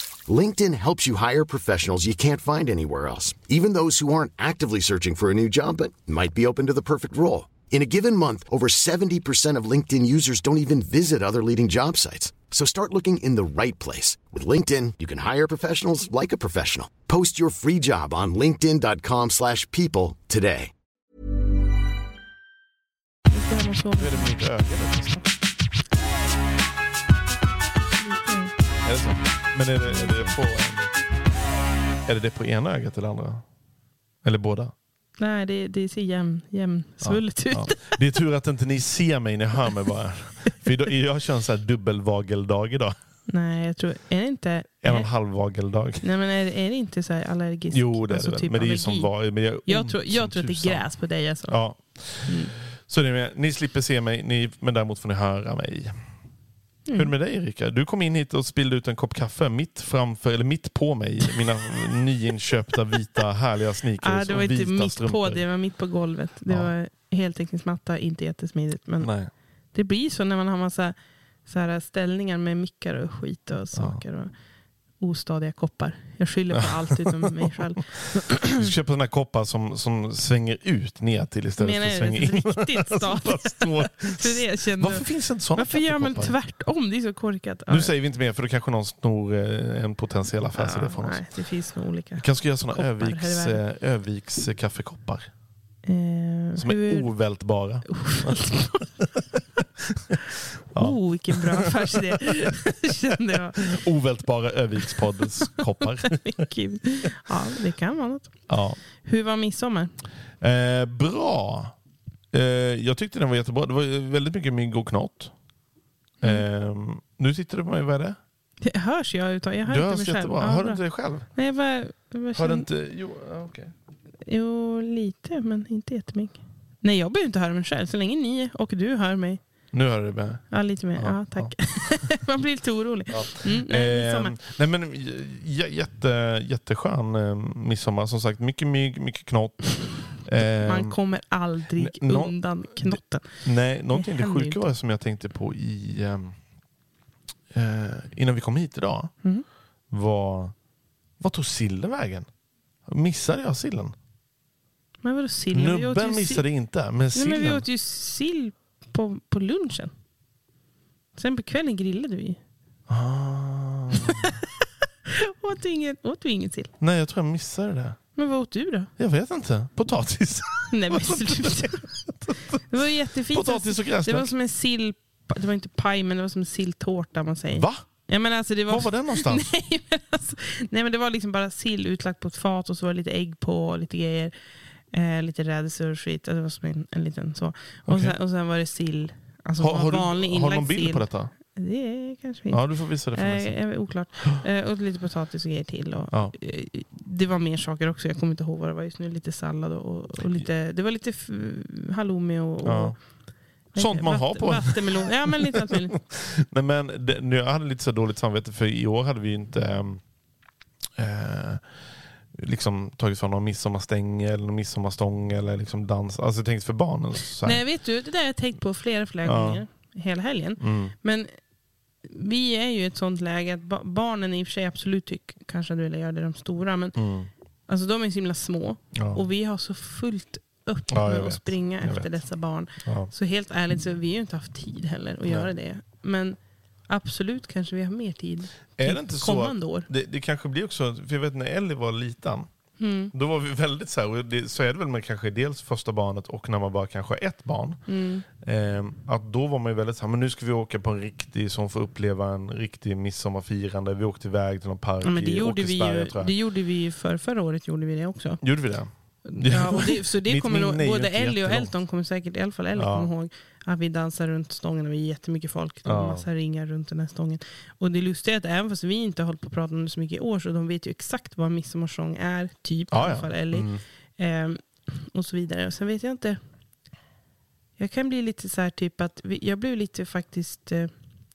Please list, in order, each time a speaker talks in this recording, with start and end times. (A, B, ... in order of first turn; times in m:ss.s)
0:00.2-0:20.7 A
0:23.3-0:24.6 B
0:24.0-0:25.2 C
0:28.0-0:28.5 B
0:28.8-0:30.9 C
0:29.8-0:30.4 B
0:32.0-0:33.4 C
0:34.2-0:34.7 C
0:35.2-0:38.0 B
0:37.0-0:42.9 C
0:43.3-0:45.1 B
0:44.8-0:46.0 C
0:46.0-0:52.5 B
0:47.7-0:56.2 C
0:56.8-0:57.1 B
0:56.9-1:05.4 C
1:04.0-1:14.3 B
1:09.0-1:09.3 C
1:13.7-1:14.0 C
1:15.0-1:18.5 B
1:18.4-1:26.4 C
1:21.6-1:27.9 B
1:27.7-1:31.3 C
1:30.5-1:33.6 B
1:32.2-1:35.3 C
1:35.8-1:37.1 B
1:36.5-1:39.2 C
1:37.9-1:38.9 B
1:40.7-1:42.1 C
1:40.7-1:43.8 B
1:43.7-1:46.4 C
1:46.1-1:49.9 B
1:48.5-1:48.8 C
1:50.4-1:51.8 C
1:52.3-1:55.3 C
1:56.2-1:58.2 C
1:58.6-2:02.7 B
1:59.7-2:01.3 C
2:02.4-2:03.7 C
2:04.2-2:09.7 B
2:09.7-2:12.3 C
2:10.5-2:14.4 B
2:13.1-2:21.0 C
2:20.6-2:24.6 B
2:21.8-2:26.4 C
2:27.5-2:29.3 C
2:29.9-2:30.5 C
2:31.2-2:32.3 C
2:32.8-2:33.9 C
2:35.0-2:36.5 B
2:35.5-2:37.6 C
2:37.1-2:39.9 B
2:41.1-2:42.4 B
2:42.9-2:44.2 C
2:45.2-2:46.7 B
2:46.8-2:48.2 C
2:48.2-2:48.9 B
2:49.0-2:52.6 C
2:50.7-2:51.9 B
2:52.7-3:04.3 B
2:53.3-2:54.3 C
2:57.5-2:58.2 C
2:58.7-2:59.5 C
3:04.9-3:25.9 B
3:07.9-3:08.2 C
3:09.6-3:11.3 C
3:12.5-3:14.4 C
3:22.6-3:30.0 C
3:31.0-3:37.6 C
3:37.4-3:41.3 B
3:39.2-3:39.6 C
3:40.6-3:40.9 C
3:42.0-3:47.1 B
3:46.9-3:47.3 C
3:47.7-3:59.9 B
3:48.9-3:49.2 C
3:50.9-3:53.1 C
3:58.8-4:07.8 C
4:02.8-4:03.1 B
4:07.9-4:08.2 B
4:08.4-4:16.3 C
4:15.0-4:36.4 B
4:18.4-4:21.8 C
4:22.8-4:23.1 C
4:25.8-4:26.3 C
4:32.9-4:33.8 C
4:37.8-4:40.9 B